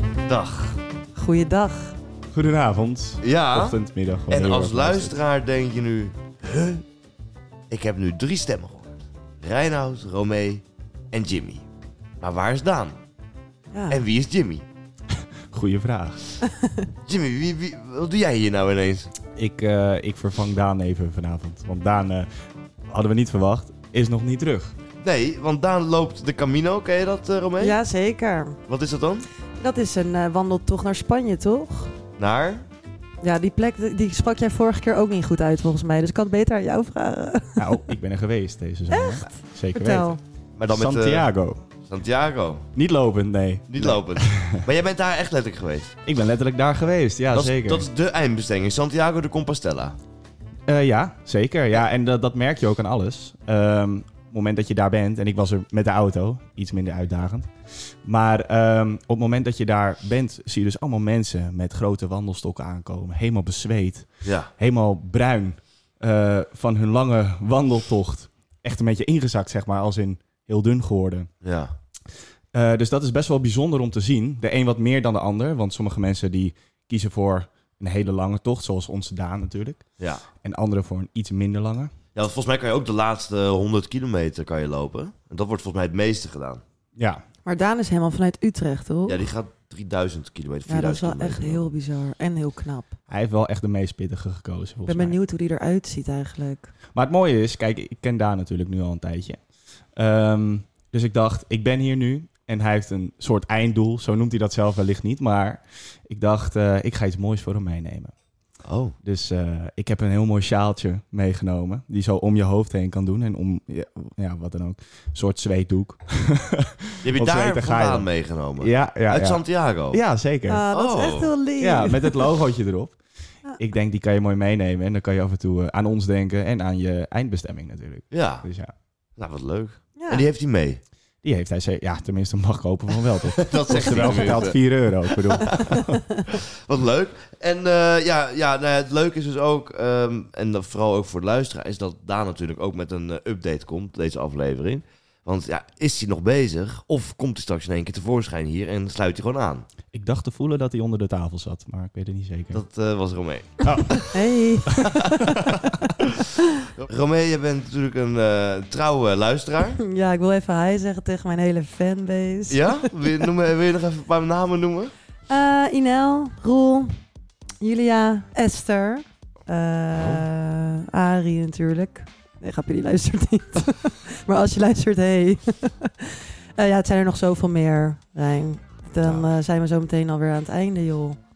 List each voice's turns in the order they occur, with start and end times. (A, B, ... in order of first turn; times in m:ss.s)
0:00.2-0:00.8 A
0:01.1-0:01.9 B
0:02.3-0:05.2 C
0:03.2-0:06.8 A
0:07.7-0:11.6 A
0:12.2-0:13.0 A
0:13.7-0:14.0 B
0:13.9-0:14.6 A
0:15.5-0:16.2 C
0:16.4-0:16.9 B
0:17.0-0:19.1 A
0:19.4-0:22.3 C
0:22.9-0:24.7 C
0:25.0-0:27.8 A
0:27.6-0:28.6 B
0:28.7-0:29.3 A
0:29.6-0:31.9 B
0:32.2-0:32.6 A
0:33.2-0:37.8 B
0:37.6-0:40.2 C
0:38.9-0:40.2 B
0:40.6-0:41.3 A
0:40.7-0:41.6 C
0:41.8-0:42.7 A
0:42.8-0:44.6 C
0:43.7-0:46.0 A
0:46.0-0:47.8 C
0:47.3-0:50.0 A
0:50.7-1:11.3 C
1:04.2-1:04.5 A
1:11.4-1:11.7 A
1:12.5-1:21.9 C
1:20.0-1:20.2 A
1:22.1-1:26.6 A
1:27.0-1:27.2 C
1:27.4-1:29.2 B
1:29.1-1:31.7 A
1:30.7-1:32.9 B
1:33.1-1:35.2 C
1:34.8-1:36.7 B
1:36.9-1:48.1 C
1:48.6-1:49.0 A
1:49.0-1:58.1 C
1:57.0-2:00.0 A
1:58.6-2:00.6 C
2:00.5-2:02.3 B
2:00.7-2:01.4 A
2:01.6-2:03.0 C
2:03.6-2:08.7 C
2:08.1-2:08.5 A
2:09.2-2:10.8 A
2:10.0-2:10.2 B
2:11.2-2:16.0 C
2:13.2-2:29.6 A
2:29.9-2:32.6 C
2:32.5-2:34.1 A
2:33.6-2:34.2 C
2:34.0-2:35.4 B
2:34.9-2:35.9 C
2:36.8-2:39.8 A
2:39.8-2:42.9 B
2:42.5-2:44.9 A
2:45.3-2:47.0 B
2:47.6-3:01.2 B
2:49.9-2:50.2 A